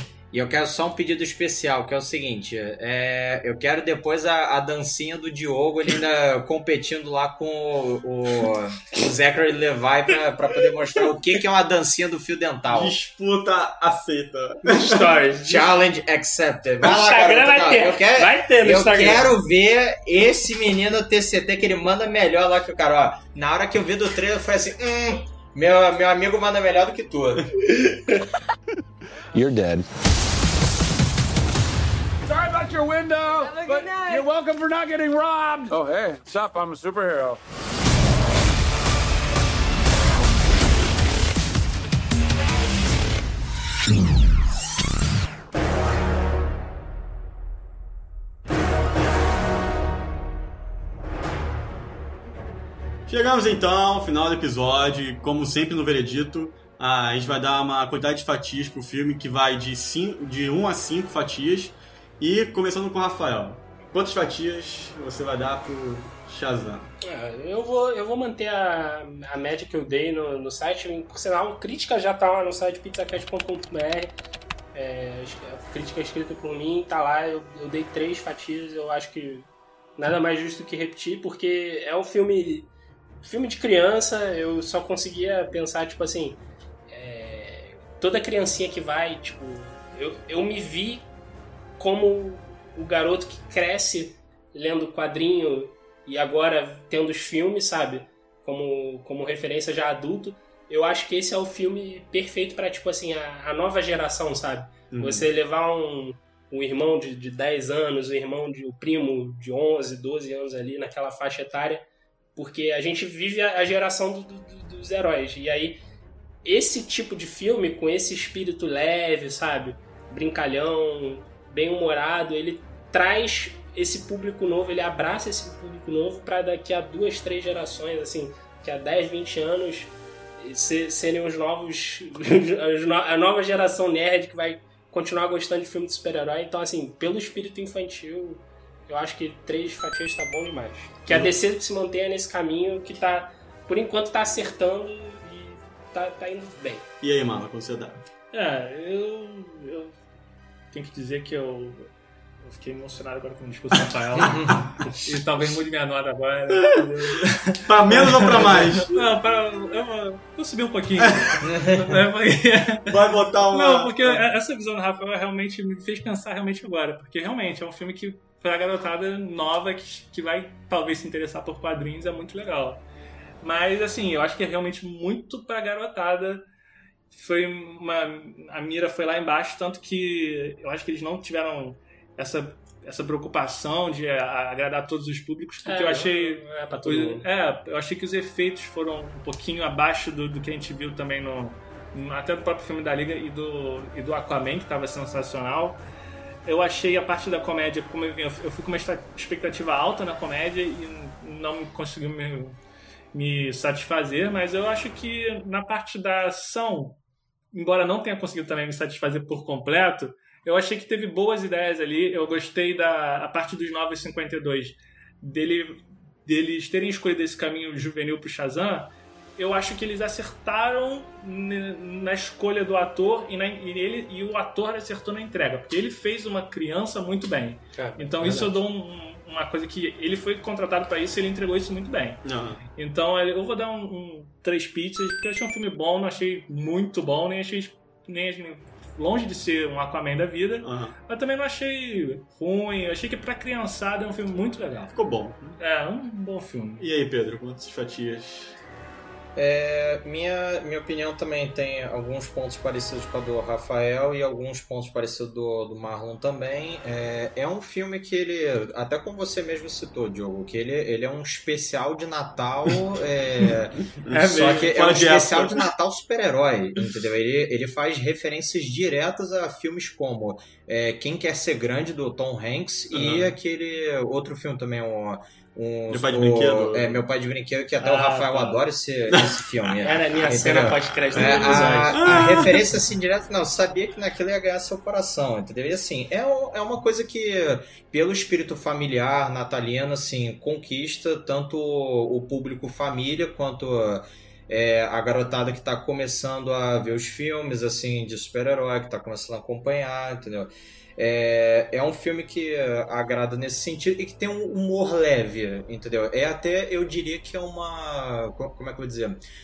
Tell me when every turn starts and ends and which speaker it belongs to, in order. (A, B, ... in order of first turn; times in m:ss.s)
0:00.3-0:13.0 A
0:12.7-0:15.0 B
0:14.6-0:15.7 C
0:15.4-0:27.6 A
0:16.8-0:19.3 C
0:29.4-0:29.8 D
0:32.4-0:35.1 D
0:35.7-0:36.4 D
0:53.1-1:06.9 B
1:07.0-1:14.1 C
1:14.7-1:22.7 C
1:23.2-1:31.1 C
1:31.8-1:51.8 C
1:44.9-1:45.3 B
1:52.4-1:55.8 C
1:56.4-2:26.8 C
2:27.0-2:28.0 B
2:28.3-2:30.0 E
2:30.7-2:31.9 E
2:32.4-2:52.8 E
2:33.8-2:34.6 B
2:34.2-2:34.6 A
2:37.7-2:38.9 B
2:41.0-2:41.3 B
2:41.4-2:42.0 A
2:42.9-2:44.2 B
2:53.4-2:56.4 E
2:57.1-3:15.8 E
3:05.6-3:07.2 C
3:16.4-3:22.6 E
3:23.1-3:27.0 E
3:27.5-4:04.9 E
3:47.8-3:48.5 C
3:52.2-3:52.6 B
4:00.6-4:00.9 B
4:04.9-4:05.6 B
4:05.6-4:06.9 E
4:06.8-4:08.6 B
4:09.3-5:09.2 A
4:24.0-4:25.6 B
4:24.1-4:24.8 E
4:32.9-4:33.3 B
4:35.9-4:37.0 B
4:37.8-4:38.6 E
4:39.1-4:39.7 B
4:39.8-4:41.9 C
4:41.2-4:42.7 B
4:41.3-4:42.0 E